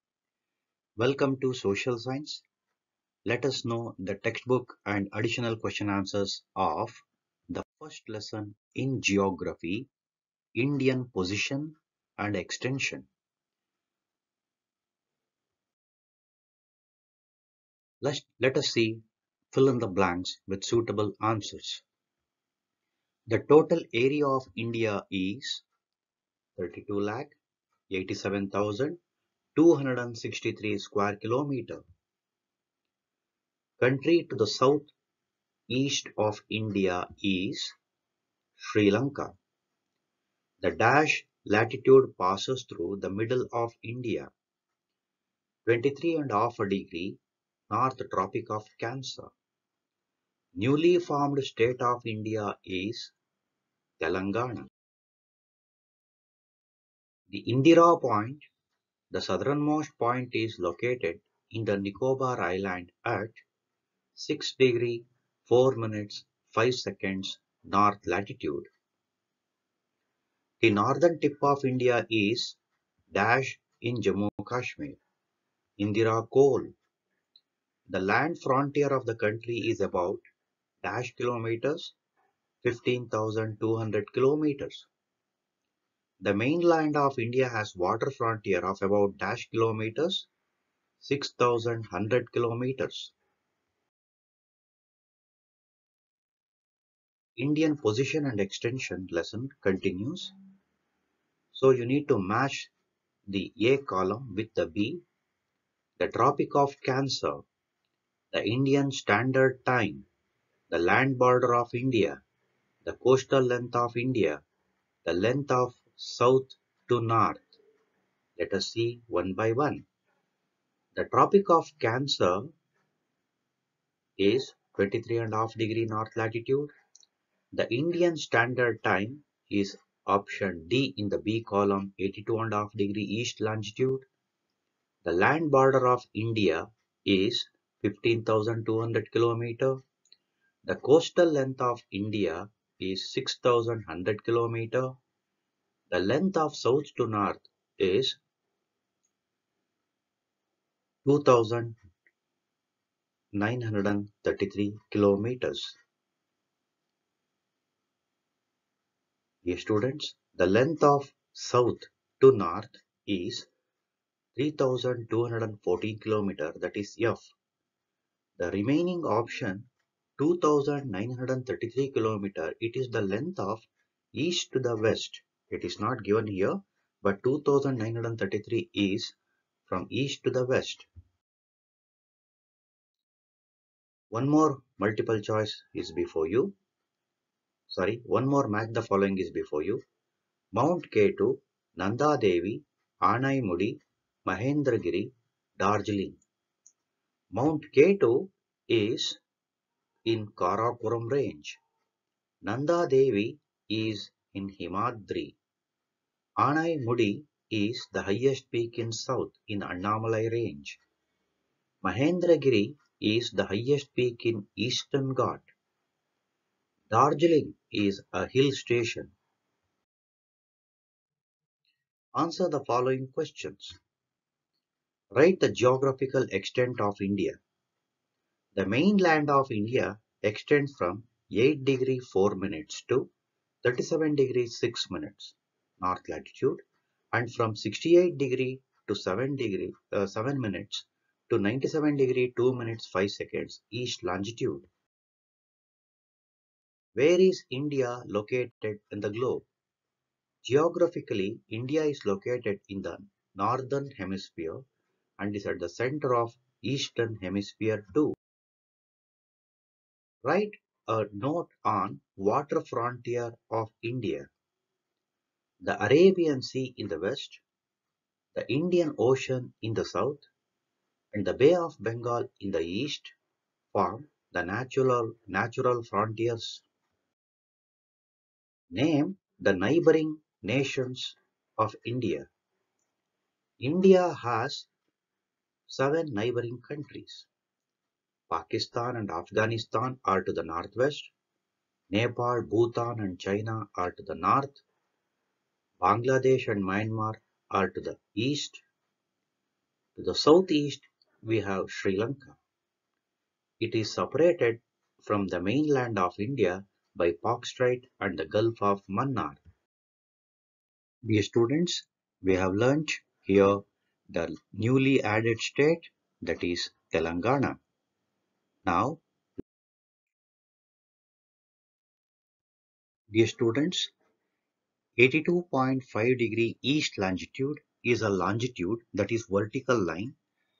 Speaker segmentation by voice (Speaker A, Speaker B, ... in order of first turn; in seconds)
Speaker A: 1.0-2.4, 3.2-9.9, 10.5-13.1, 18.0-21.8, 23.3-25.6, 26.6-27.4, 27.9-29.0, 29.6-31.8, 33.8-34.9, 35.7-37.8, 38.6-39.3, 40.6-44.3, 45.6-47.2, 47.7-49.3, 50.6-53.1, 54.0-54.7, 57.3-58.5, 59.1-63.4, 64.2-68.7, 70.6-72.6, 73.1-75.0, 75.8-76.7, 77.9-80.2, 80.8-81.9, 82.6-84.9, 86.2-90.3, 91.0-93.1, 97.4-100.3, 101.5-102.7, 103.3-105.0, 106.0-107.4, 108.3-110.1, 110.7-112.2, 112.8-114.4, 115.0-117.6, 118.4-119.8, 120.9-122.5, 124.2-126.7, 127.5-134.1, 135.0-139.8, 140.7-144.9, 145.9-148.2, 151.0-151.8, 153.3-155.8, 159.4-163.5, 164.3-167.3, 168.4-169.7, 170.2-179.2, 179.7-180.9, 184.1-186.5, 187.7-189.8, 190.5-196.2, 197.3-199.2, 200.1-201.6, 202.4-205.3, 206.4-210.8, 211.8-215.5, 216.9-219.1, 222.2-223.8, 225.2-227.4, 228.5-233.1, 233.6-236.6, 237.1-244.7, 246.9-249.4, 250.4-254.6, 255.2-258.1, 260.2-264.3, 265.6-267.4, 268.3-270.3, 271.1-273.1, 273.7-276.6, 278.7-282.3, 283.6-284.7, 285.7-287.3, 288.3-291.1, 291.9-294.6, 295.8-298.6, 299.9-302.4, 303.6-309.4, 311.1-317.6, 318.6-319.0, 323.1-323.9, 325.0-330.1